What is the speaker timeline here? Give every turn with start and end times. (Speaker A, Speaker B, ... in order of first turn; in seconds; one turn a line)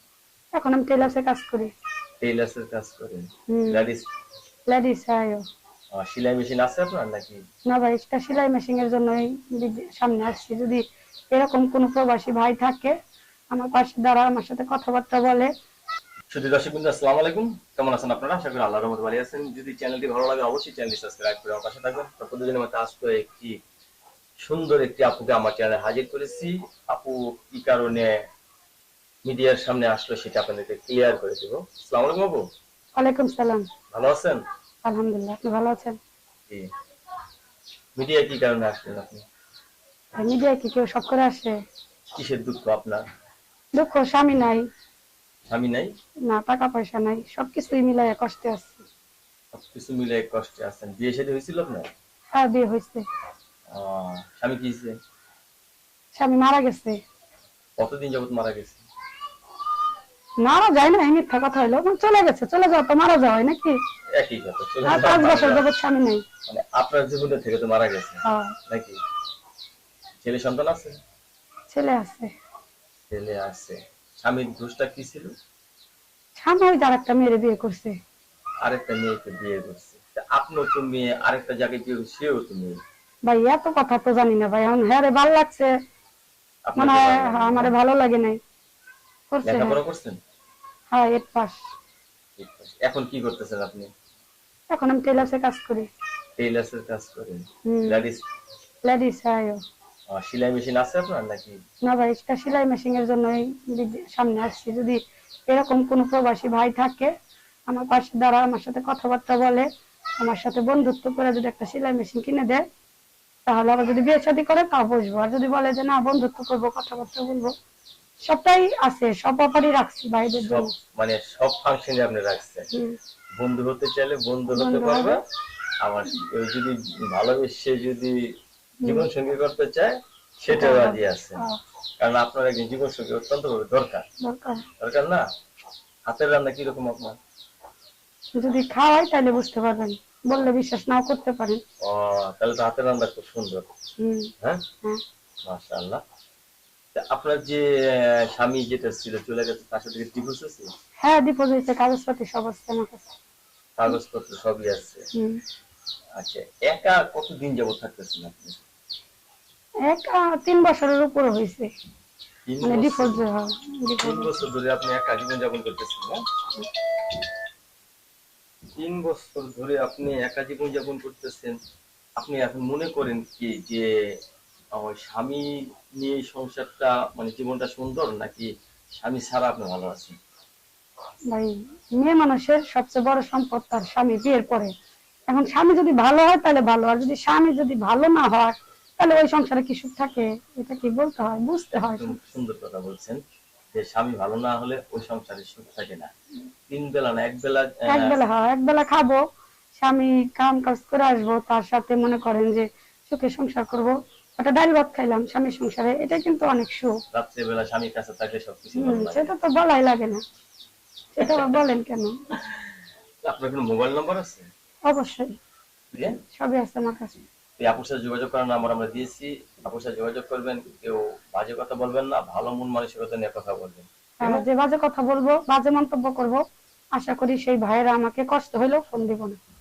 Speaker A: 0.6-1.7
Speaker B: 2.2-4.0
Speaker A: 3.5-3.8
Speaker A: 4.7-5.4
Speaker B: 6.0-7.4
Speaker A: 7.7-10.8
Speaker A: 11.3-12.9
Speaker A: 13.5-15.5
Speaker B: 16.3-23.6
Speaker B: 24.4-28.1
Speaker B: 29.2-32.4
Speaker A: 33.0-33.7
Speaker B: 33.9-34.4
Speaker A: 34.9-36.0
Speaker B: 38.0-39.2
Speaker A: 40.2-41.5
Speaker B: 42.2-43.0
Speaker A: 43.8-44.7
Speaker B: 45.5-45.9
Speaker A: 46.3-48.8
Speaker B: 49.5-51.9
Speaker A: 52.3-53.0
Speaker B: 53.7-55.0
Speaker A: 56.1-57.0
Speaker B: 57.8-58.8
Speaker A: 60.4-63.8
Speaker B: 64.1-65.7
Speaker A: 64.9-66.2
Speaker B: 66.5-69.0
Speaker A: 68.3-68.5
Speaker B: 70.2-71.0
Speaker A: 71.7-72.3
Speaker B: 73.1-75.3
Speaker A: 76.4-78.0
Speaker B: 78.6-82.8
Speaker A: 83.3-85.7
Speaker B: 86.7-87.7
Speaker A: 86.8-88.4
Speaker A: 89.3-89.8
Speaker B: 89.5-90.2
Speaker A: 90.9-91.6
Speaker B: 92.4-93.9
Speaker A: 94.7-95.9
Speaker B: 96.4-98.2
Speaker A: 97.7-98.0
Speaker A: 98.8-99.6
Speaker B: 100.1-101.6
Speaker A: 101.9-107.1
Speaker A: 107.7-109.6
Speaker A: 110.2-112.6
Speaker A: 113.5-117.5
Speaker A: 118.3-120.7
Speaker B: 120.4-122.7
Speaker B: 123.4-125.2
Speaker A: 124.5-125.2
Speaker B: 125.8-128.2
Speaker B: 128.8-131.4
Speaker A: 130.5-131.6
Speaker B: 132.0-134.0
Speaker A: 134.2-134.6
Speaker B: 134.8-135.2
Speaker B: 136.1-137.2
Speaker A: 138.4-141.6
Speaker B: 141.8-143.7
Speaker A: 144.0-144.3
Speaker B: 145.5-146.0
Speaker B: 146.9-150.7
Speaker A: 151.0-153.1
Speaker B: 153.8-155.0
Speaker B: 156.2-158.6
Speaker A: 159.9-161.7
Speaker B: 162.5-163.2
Speaker A: 162.6-164.3
Speaker B: 164.0-166.2
Speaker B: 168.8-171.6
Speaker B: 172.2-173.9
Speaker B: 174.8-180.2
Speaker A: 181.3-184.7
Speaker A: 185.3-192.2
Speaker B: 191.8-193.2
Speaker B: 193.7-196.1
Speaker B: 196.7-198.2
Speaker A: 197.9-199.2
Speaker A: 199.8-206.9
Speaker B: 207.1-209.3
Speaker A: 208.8-210.2
Speaker A: 211.1-212.1
Speaker B: 211.2-211.5
Speaker B: 213.2-214.5
Speaker A: 214.9-215.3
Speaker A: 216.3-217.2
Speaker B: 217.6-224.4
Speaker A: 224.2-226.4
Speaker A: 226.9-229.4